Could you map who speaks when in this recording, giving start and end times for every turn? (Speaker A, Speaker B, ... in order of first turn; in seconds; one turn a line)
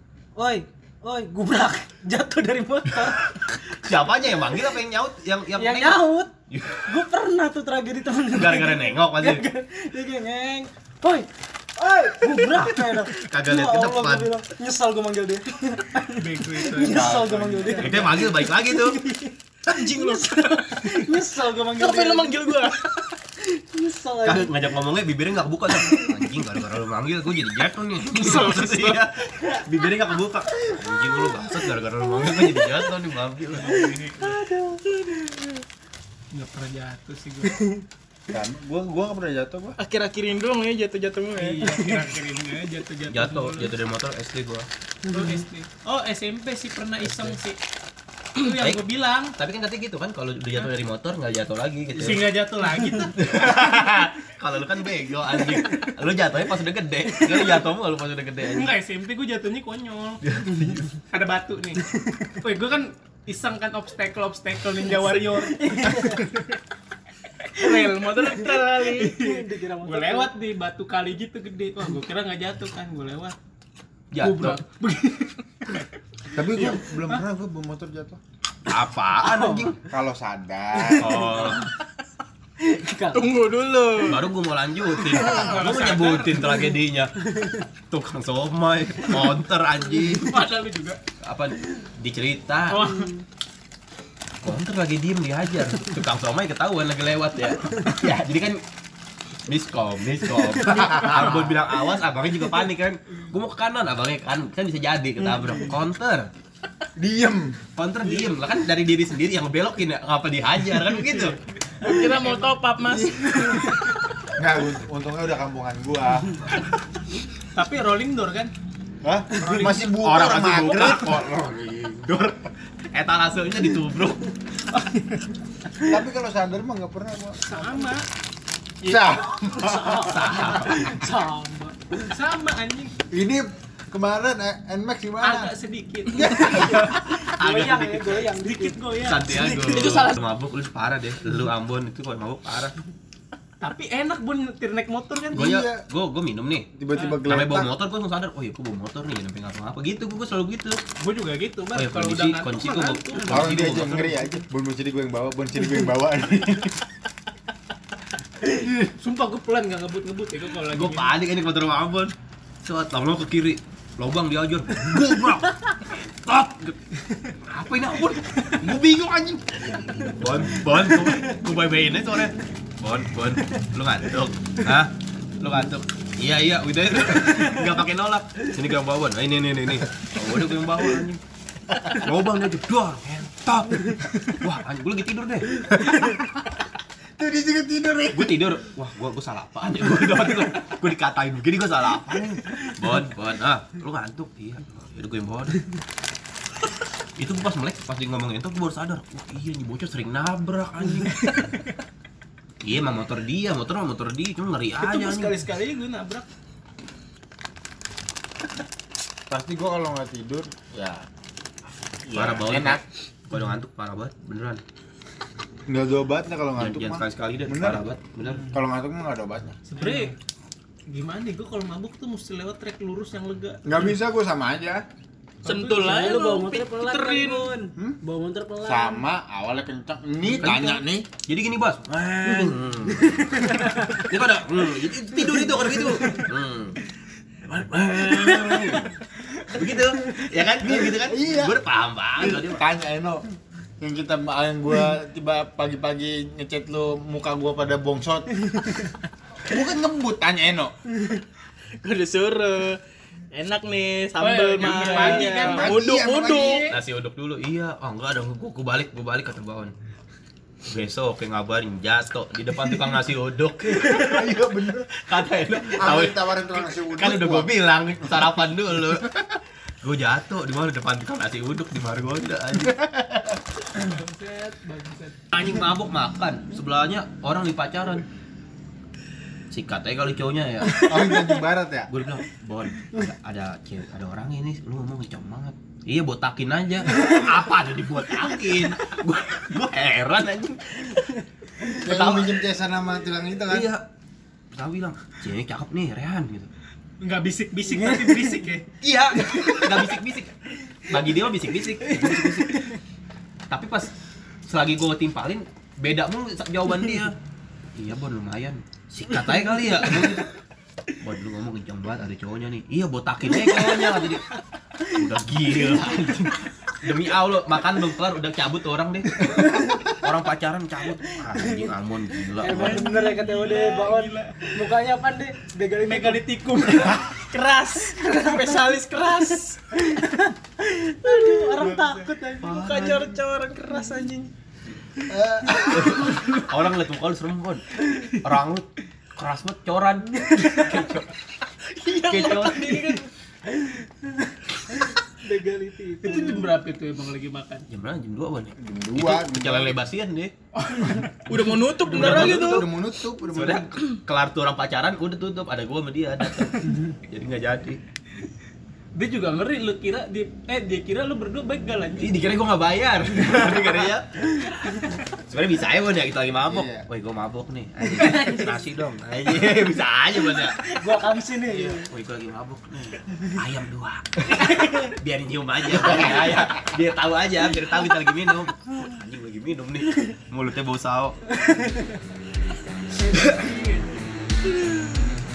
Speaker A: 0.4-3.4
Speaker B: 3.5-6.9
Speaker A: 5.5-6.3
Speaker A: 6.9-22.5
Speaker B: 8.3-9.4
Speaker B: 12.6-14.3
Speaker C: 16.2-18.2
Speaker D: 16.9-17.8
Speaker B: 17.8-19.0
Speaker E: 19.7-23.2
Speaker A: 23.4-24.6
Speaker B: 24.2-33.8
Speaker E: 28.2-29.1
Speaker C: 33.5-34.4
Speaker A: 33.6-34.9
Speaker E: 34.9-35.6
Speaker C: 36.3-37.6
Speaker D: 38.3-39.8
Speaker E: 39.8-42.0
Speaker C: 41.4-43.7
Speaker B: 43.1-44.7
Speaker A: 45.1-45.4
Speaker C: 45.1-47.6
Speaker B: 47.1-47.4
Speaker C: 48.4-49.4
Speaker B: 48.6-48.8
Speaker B: 49.4-52.4
Speaker C: 51.9-53.3
Speaker B: 53.1-58.7
Speaker C: 58.4-60.2
Speaker B: 60.2-61.0
Speaker C: 61.0-61.8
Speaker C: 62.4-66.5
Speaker A: 65.4-66.4
Speaker E: 67.5-69.3
Speaker A: 68.2-70.3
Speaker C: 69.8-73.4
Speaker B: 74.1-74.6
Speaker C: 74.2-77.2
Speaker D: 76.3-78.2
Speaker B: 78.7-79.8
Speaker A: 79.2-79.8
Speaker D: 79.9-81.3
Speaker A: 80.9-81.4
Speaker B: 81.0-81.7
Speaker A: 82.6-83.4
Speaker E: 83.1-84.2
Speaker B: 84.0-87.2
Speaker E: 84.9-85.5
Speaker C: 85.2-86.6
Speaker A: 87.3-87.6
Speaker B: 87.9-90.5
Speaker C: 90.0-91.0
Speaker B: 91.2-93.0
Speaker C: 92.7-93.2
Speaker B: 94.4-98.6
Speaker B: 99.5-106.3
Speaker D: 100.7-101.3
Speaker D: 107.0-107.6
Speaker B: 107.8-111.4
Speaker E: 111.8-113.8
Speaker D: 112.8-113.7
Speaker D: 114.3-116.5
Speaker C: 117.5-118.5
Speaker D: 119.0-122.2
Speaker B: 119.4-124.3
Speaker C: 124.7-125.2
Speaker D: 125.8-127.4
Speaker C: 127.4-128.1
Speaker A: 127.5-127.8
Speaker D: 128.8-130.2
Speaker A: 129.4-131.8
Speaker B: 130.1-130.9
Speaker C: 131.9-132.9
Speaker D: 133.1-135.5
Speaker C: 135.2-137.1
Speaker D: 136.1-136.9
Speaker B: 136.5-138.3
Speaker A: 136.8-138.8
Speaker C: 138.3-140.0
Speaker B: 139.0-142.8
Speaker E: 139.3-140.2
Speaker C: 143.6-145.5
Speaker D: 145.3-145.8
Speaker B: 145.3-150.8
Speaker D: 146.8-147.7
Speaker C: 151.0-153.8
Speaker B: 151.7-154.2
Speaker D: 153.3-156.8
Speaker C: 158.8-161.1
Speaker B: 160.7-166.8
Speaker B: 167.3-181.2
Speaker B: 181.8-185.6
Speaker D: 185.7-186.3
Speaker D: 187.2-188.5
Speaker B: 188.1-195.7
Speaker B: 197.2-201.4
Speaker B: 202.6-205.4
Speaker C: 204.8-206.3
Speaker D: 209.3-211.1
Speaker D: 212.1-212.8
Speaker B: 212.1-214.6
Speaker D: 215.7-217.9
Speaker B: 216.6-218.5
Speaker D: 218.4-219.6
Speaker C: 219.7-220.2
Speaker C: 220.9-223.8
Speaker D: 223.7-224.8
Speaker C: 225.4-226.2
Speaker E: 225.4-227.5
Speaker A: 225.7-229.1
Speaker D: 228.6-231.1
Speaker B: 230.4-236.8
Speaker A: 233.0-234.0
Speaker B: 237.4-239.0
Speaker B: 239.5-242.6
Speaker D: 240.6-241.6
Speaker D: 242.3-243.2
Speaker D: 243.8-248.5
Speaker D: 249.4-250.8
Speaker E: 251.8-252.8
Speaker E: 253.3-256.7
Speaker C: 254.2-256.8
Speaker D: 255.3-256.7
Speaker B: 256.7-259.7
Speaker B: 260.7-264.4
Speaker D: 263.8-264.9
Speaker B: 264.9-269.2
Speaker D: 265.6-267.5
Speaker B: 269.8-272.9
Speaker D: 272.8-273.3
Speaker C: 273.7-275.2
Speaker B: 275.3-278.1
Speaker B: 279.5-281.1
Speaker D: 280.8-281.9
Speaker B: 281.9-292.4
Speaker D: 291.8-293.7
Speaker B: 293.5-293.9
Speaker B: 294.5-296.5
Speaker C: 297.0-298.7
Speaker A: 297.7-298.4
Speaker B: 298.8-300.3
Speaker C: 299.4-299.7
Speaker B: 300.9-302.6
Speaker B: 303.5-303.9
Speaker B: 304.5-307.1
Speaker B: 307.8-310.3
Speaker B: 310.9-314.3
Speaker B: 314.9-322.8
Speaker D: 319.5-319.8
Speaker A: 322.4-326.6
Speaker C: 322.5-324.7
Speaker C: 325.8-327.1
Speaker E: 327.1-329.7
Speaker A: 327.8-332.4
Speaker E: 331.0-334.3
Speaker C: 331.5-332.3
Speaker B: 332.4-333.1
Speaker D: 335.1-336.1
Speaker B: 335.7-341.1
Speaker E: 340.2-340.9
Speaker E: 341.7-343.1
Speaker B: 342.1-343.0
Speaker A: 345.2-346.5
Speaker C: 346.0-347.7
Speaker B: 347.7-350.3
Speaker D: 348.6-349.8
Speaker C: 350.6-351.1
Speaker E: 351.2-352.8
Speaker D: 351.8-353.7
Speaker B: 351.8-352.7
Speaker B: 353.3-357.8
Speaker C: 358.9-362.3
Speaker B: 362.0-364.1
Speaker B: 365.3-370.6
Speaker D: 366.5-366.8
Speaker A: 367.9-368.6
Speaker A: 370.8-371.9
Speaker B: 371.4-381.2
Speaker D: 375.8-376.5
Speaker C: 383.0-384.1
Speaker B: 383.1-383.4